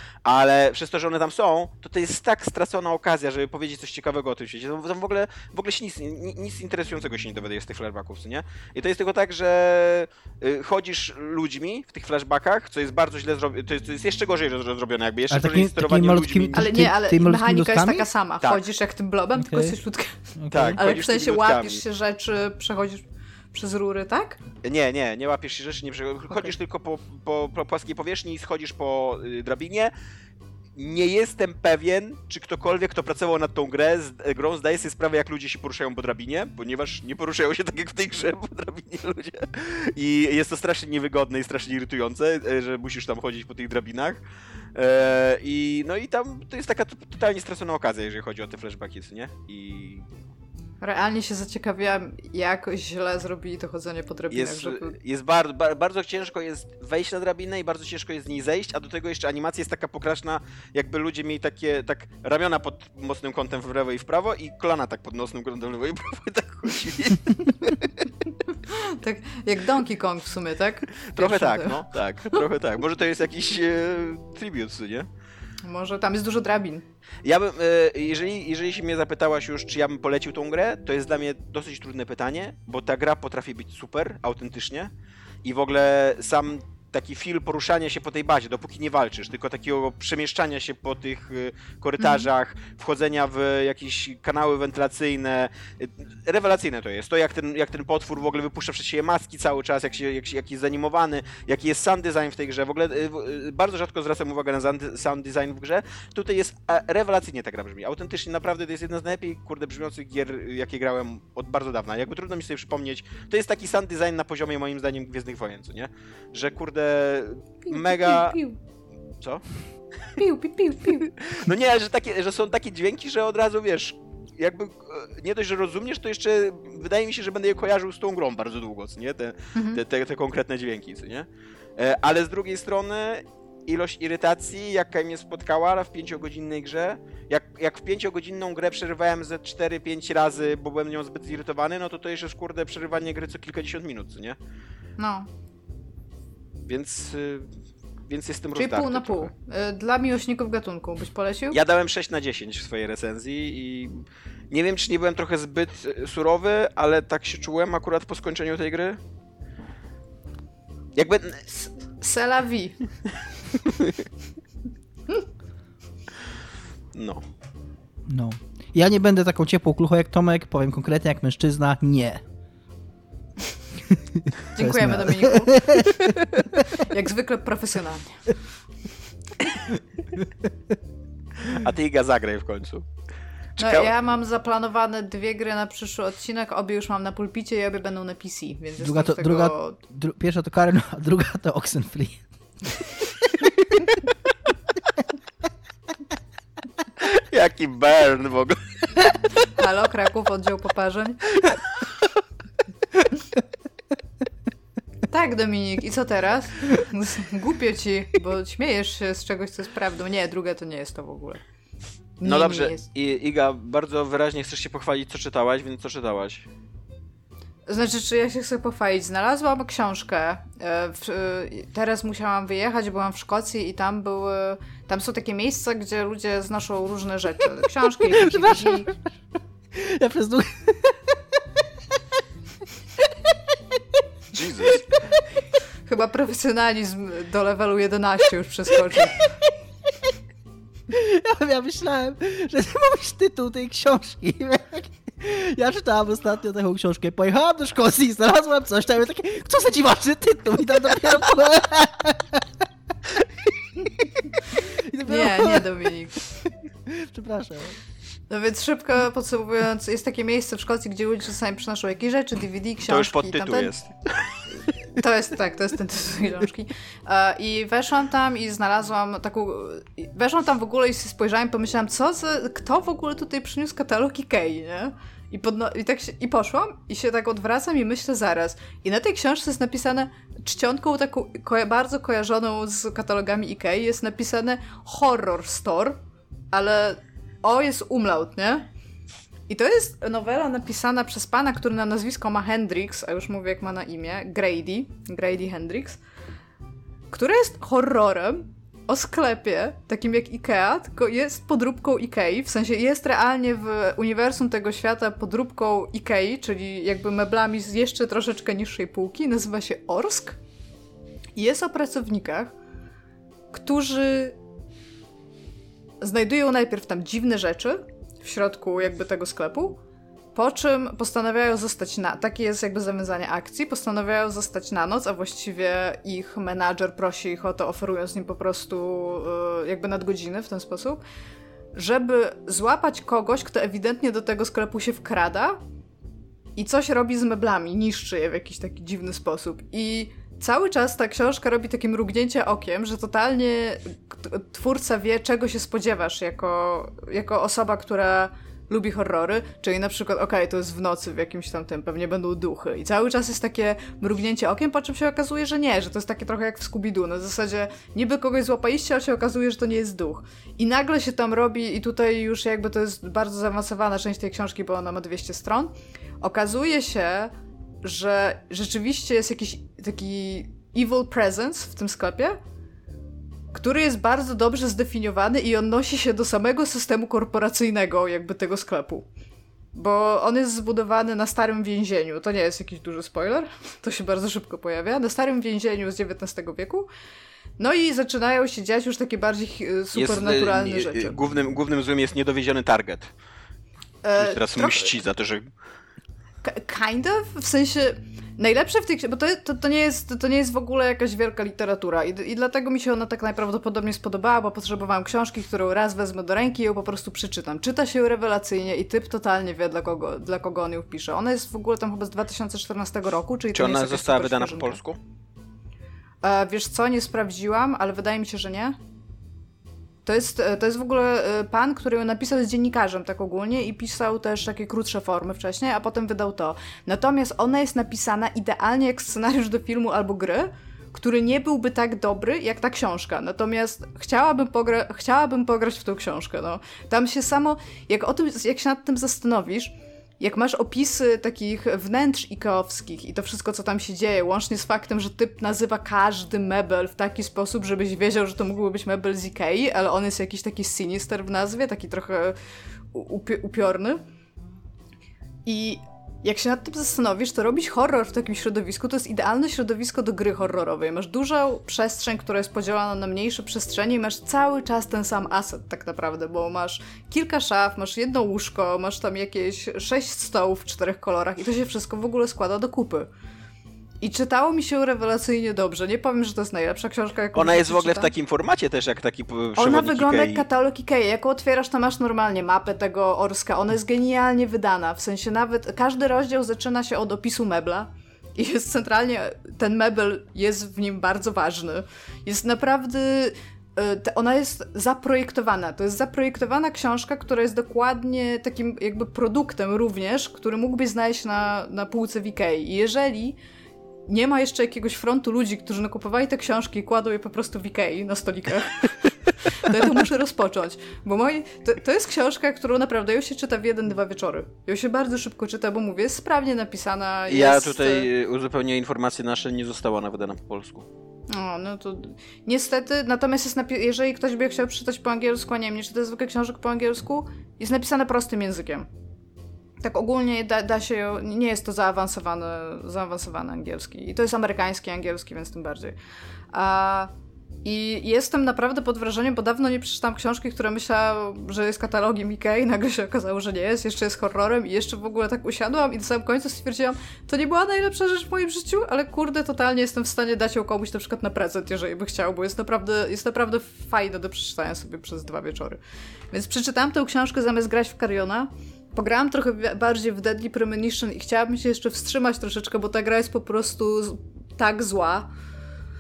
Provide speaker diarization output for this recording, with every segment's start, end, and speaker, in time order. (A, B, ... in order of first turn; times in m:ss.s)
0:00.2-0:16.7 A
0:15.3-0:18.1 B
0:16.5-0:20.2 C
0:19.4-0:19.8 B
0:20.4-0:20.8 B
0:20.5-0:21.8 A
0:20.8-0:24.4 C
0:24.6-0:29.9 A
0:30.8-0:44.2 A
0:44.8-0:50.1 A
0:50.8-0:55.0 C
0:54.3-1:08.0 A
1:08.7-1:11.8 C
1:11.0-1:15.1 A
1:15.6-1:16.8 C
1:17.2-1:24.9 A
1:25.4-1:58.4 A
1:32.0-1:32.3 C
1:57.7-1:58.6 C
2:00.2-2:01.1 C
2:01.1-2:24.4 A
2:09.6-2:09.8 C
2:25.0-2:25.3 C
2:26.7-2:27.5 A
2:28.1-2:29.3 A
2:28.6-2:31.6 C
2:31.5-2:39.0 A
2:41.0-2:41.4 A
2:41.5-2:42.8 C
2:43.7-2:44.0 A
2:46.9-2:47.2 A
2:48.1-2:52.2 B
2:53.9-2:56.7 B
2:54.5-2:56.1 C
2:56.7-2:58.3 C
3:01.4-3:02.9 A
3:03.6-3:03.9 A
3:03.6-3:09.8 C
3:08.8-3:13.5 B
3:17.0-3:19.2 A
3:19.6-3:21.2 C
3:25.1-3:31.4 C
3:32.2-3:32.8 C
3:32.2-3:36.5 A
3:37.7-3:48.9 C
3:48.1-3:48.9 B
3:49.7-3:52.0 B
3:53.0-3:54.0 B
3:54.3-3:54.8 A
3:54.7-3:55.2 B
3:55.9-3:59.3 C
3:59.3-3:59.5 B
4:00.9-4:12.5 B
4:13.1-4:15.7 B
4:15.0-4:16.2 C
4:16.3-4:17.8 B
4:18.3-4:23.7 C
4:22.9-4:24.3 A
4:25.0-4:46.0 C
4:46.5-4:48.7 C
4:49.5-4:56.0 C
4:57.1-5:10.4 C
5:11.4-5:12.5 C
5:13.5-5:14.4 C
5:16.0-5:19.8 C
5:20.4-5:31.0 C
5:31.8-5:35.6 C
5:36.6-6:07.3 C
6:07.8-6:12.4 C
6:13.5-6:19.1 C
6:19.8-6:26.9 C
6:27.6-6:31.2 C
6:30.0-6:33.1 A
6:34.0-6:34.9 C
6:34.2-6:35.5 A
6:36.4-6:54.8 C
6:53.5-6:55.0 A
6:56.2-6:58.8 C
7:00.0-7:32.4 C
7:32.9-7:34.0 C
7:35.5-7:53.1 C
7:54.0-7:58.1 C
7:57.3-8:00.4 A
7:59.6-8:23.4 C
8:24.1-8:38.1 C
8:37.3-8:40.9 A
8:41.3-8:48.9 C
8:49.8-8:56.0 C
8:56.5-8:57.1 C
8:57.6-9:15.8 C
9:16.3-9:25.3 C